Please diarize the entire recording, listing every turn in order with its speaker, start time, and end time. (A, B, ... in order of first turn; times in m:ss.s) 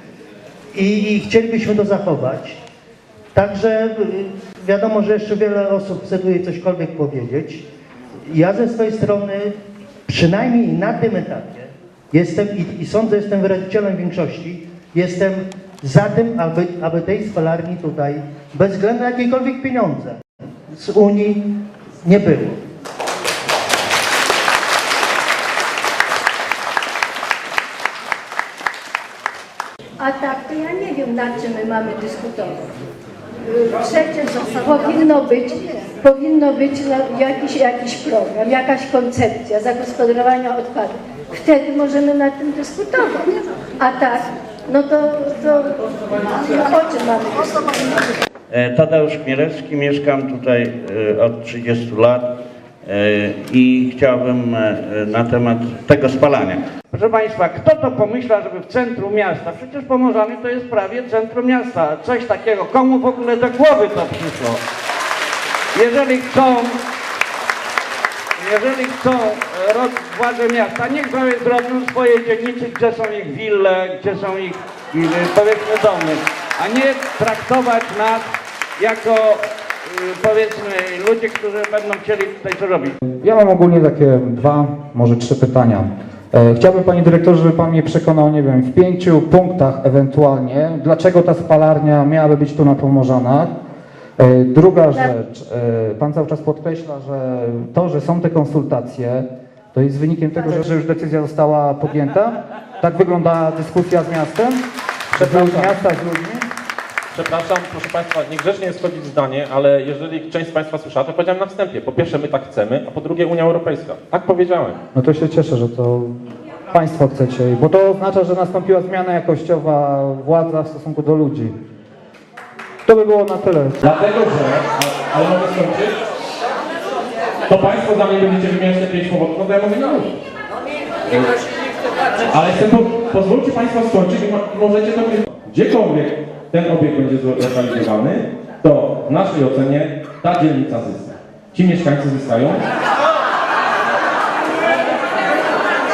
0:00.7-0:02.6 A
0:03.3-0:07.6 A
0:08.3-0:09.5 A
0:10.1-0:20.2 A
0:20.7-0:21.5 A
0:22.0-0:22.6 A
0:30.0-0:32.6 B
0:33.5-0:48.0 B
0:48.5-0:52.3 C
0:52.8-1:04.6 C
1:05.7-1:06.8 C
1:08.4-1:18.2 C
1:18.8-1:22.9 C
1:23.0-1:33.5 D
1:34.2-1:44.6 D
1:45.1-1:45.7 E
1:45.1-1:46.4 D
1:47.1-1:54.8 E
1:54.9-1:56.2 D
1:56.7-2:01.5 D
2:02.8-2:03.8 D
2:03.8-2:06.0 E
2:07.5-2:10.1 E
2:11.1-2:11.3 E
2:12.3-2:22.6 E